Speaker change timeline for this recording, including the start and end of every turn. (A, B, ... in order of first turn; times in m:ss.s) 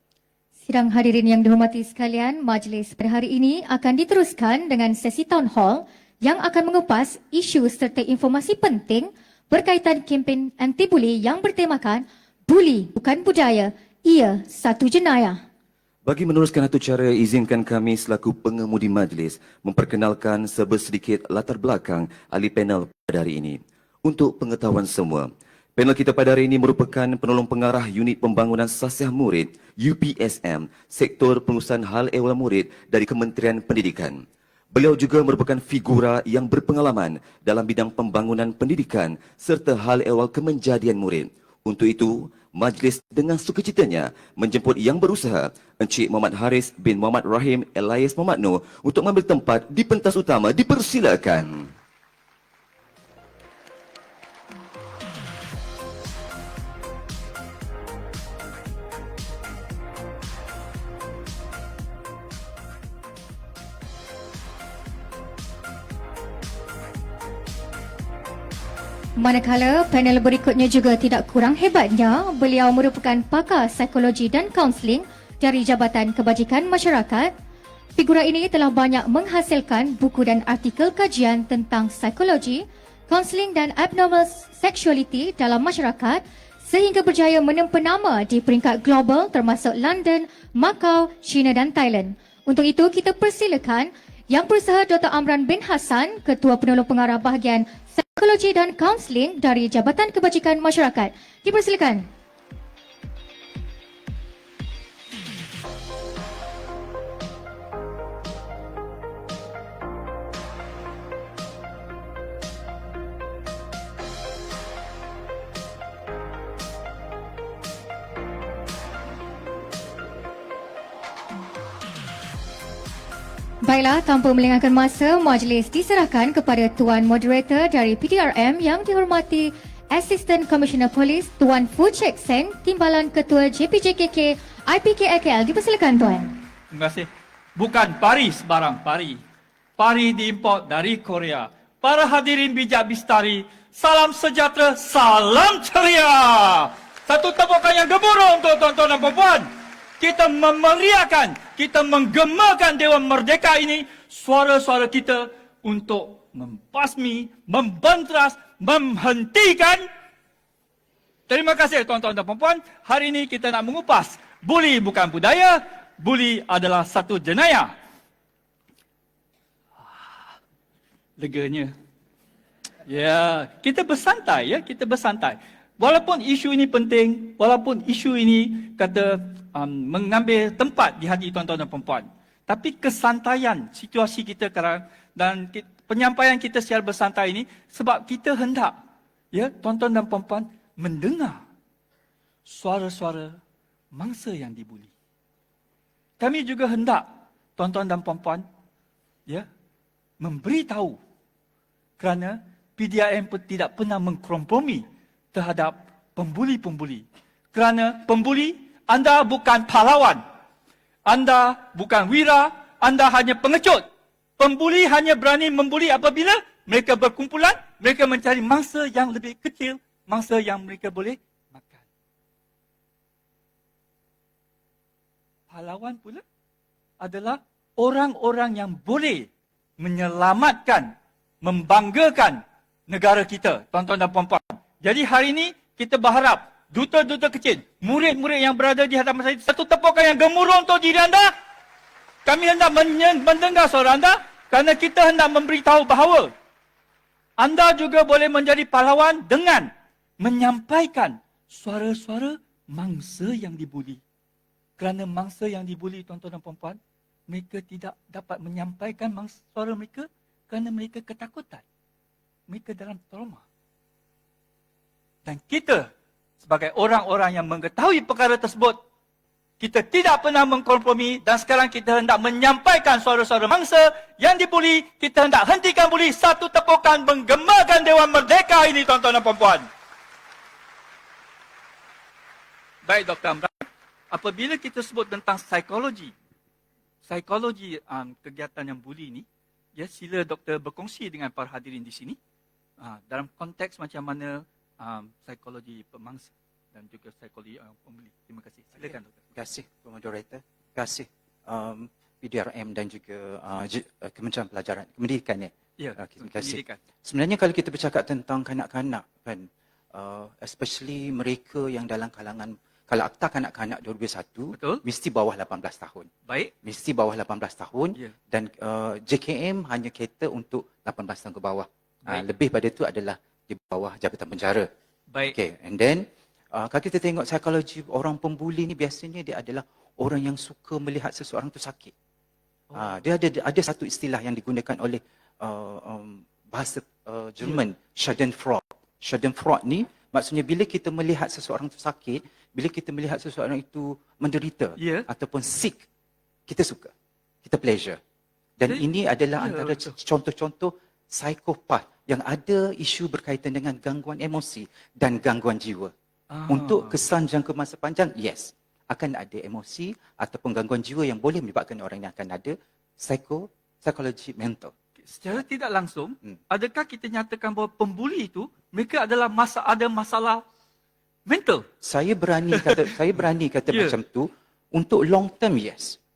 0:00.7-0:15.4 A
0:16.0-0:34.2 B
0:34.7-0:51.7 B
1:09.2-1:17.3 A
1:18.0-1:42.0 A
2:03.6-2:16.4 A
2:16.7-2:19.2 C
2:19.8-2:39.9 C
2:41.3-2:47.7 C
2:49.8-2:50.3 C
2:51.2-2:51.7 C
2:52.9-3:08.8 C
3:09.3-3:11.4 C
3:12.4-3:13.4 C
3:13.9-3:14.9 C
3:16.2-3:18.4 C
3:20.2-3:21.0 C
3:22.0-3:30.2 C
3:31.0-3:33.8 C
3:34.4-3:41.8 C
3:45.5-3:46.2 C
3:47.0-3:49.3 C
3:49.8-4:01.3 C
4:02.2-4:06.3 C
4:07.4-4:14.0 C
4:14.8-4:21.6 C
4:22.5-4:23.4 C
4:25.2-4:25.9 C
4:26.4-4:28.8 C
4:29.6-4:39.7 C
4:42.8-4:46.1 C
4:47.1-4:52.2 C
4:52.8-4:59.2 C
4:58.8-5:16.1 D
5:05.8-5:06.8 C
5:14.5-5:14.8 C
5:16.3-5:16.5 C
5:16.6-5:24.7 D
5:25.2-5:31.9 D
5:32.7-5:33.0 C
5:32.7-5:45.8 D
5:44.8-5:45.1 C
5:46.5-5:46.9 D
5:47.4-5:48.0 D
5:48.6-5:55.9 D
5:49.4-5:49.9 C
5:56.3-5:57.0 C
5:56.5-6:04.7 D
6:05.0-6:10.4 C
6:11.3-6:11.7 C
6:11.8-6:16.0 D
6:12.5-6:13.0 C
6:13.7-6:14.0 C